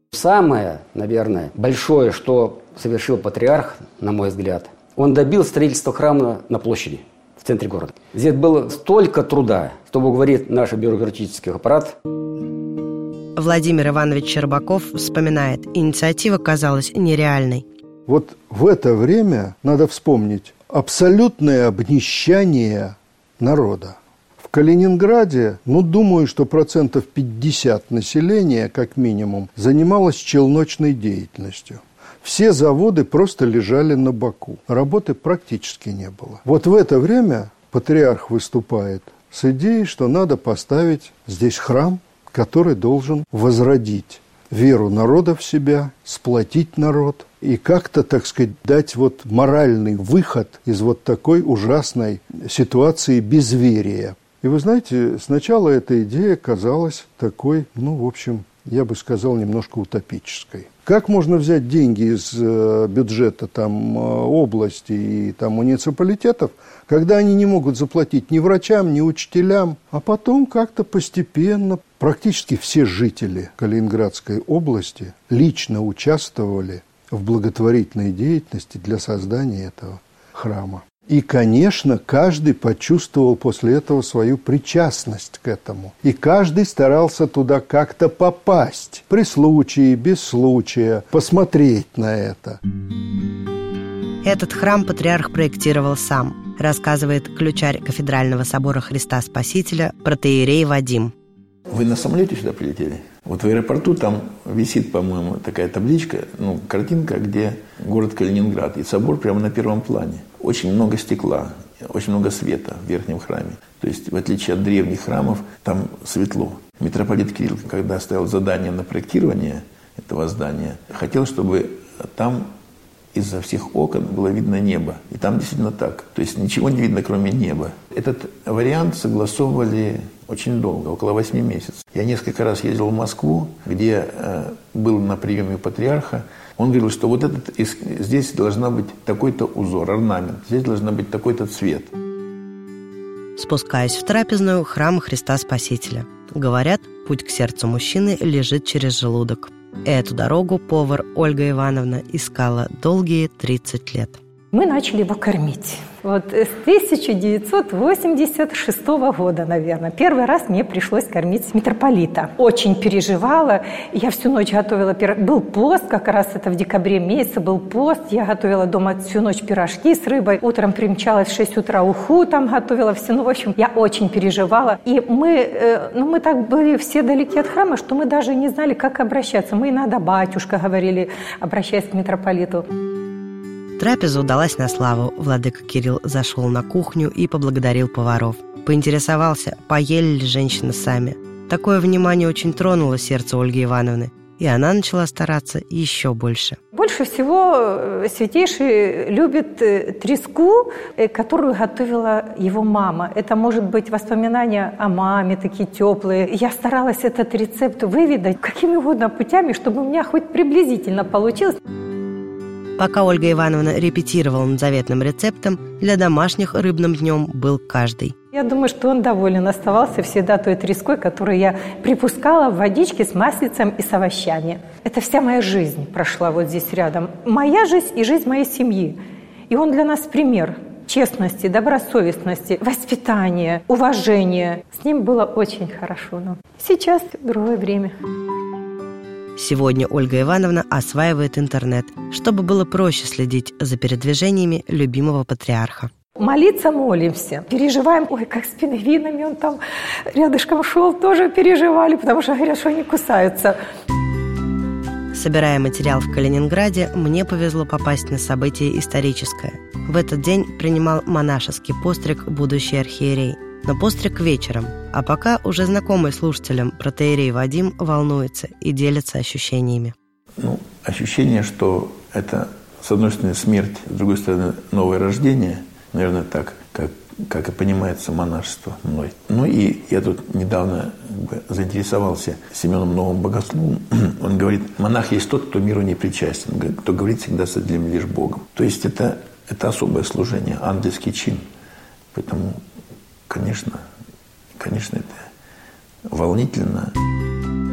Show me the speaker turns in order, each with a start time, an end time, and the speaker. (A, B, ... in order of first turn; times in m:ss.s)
0:00.1-0:12.0 A
0:13.4-0:17.6 B
0:18.0-1:32.6 C
1:34.2-1:41.1 B
1:41.7-2:02.5 D
2:03.1-2:21.9 D
2:23.4-2:34.2 B
2:34.5-3:02.7 E
3:03.8-3:16.6 B
3:16.7-3:31.6 E
3:32.8-3:38.2 B
3:38.3-3:57.9 E
3:59.4-4:05.9 B
4:06.2-4:09.6 E
4:10.1-4:13.6 E
4:15.1-4:29.9 B
4:30.4-4:51.4 D
4:52.1-4:52.6 D
4:53.3-4:53.8 D
4:54.6-4:55.2 D
4:56.1-4:56.9 D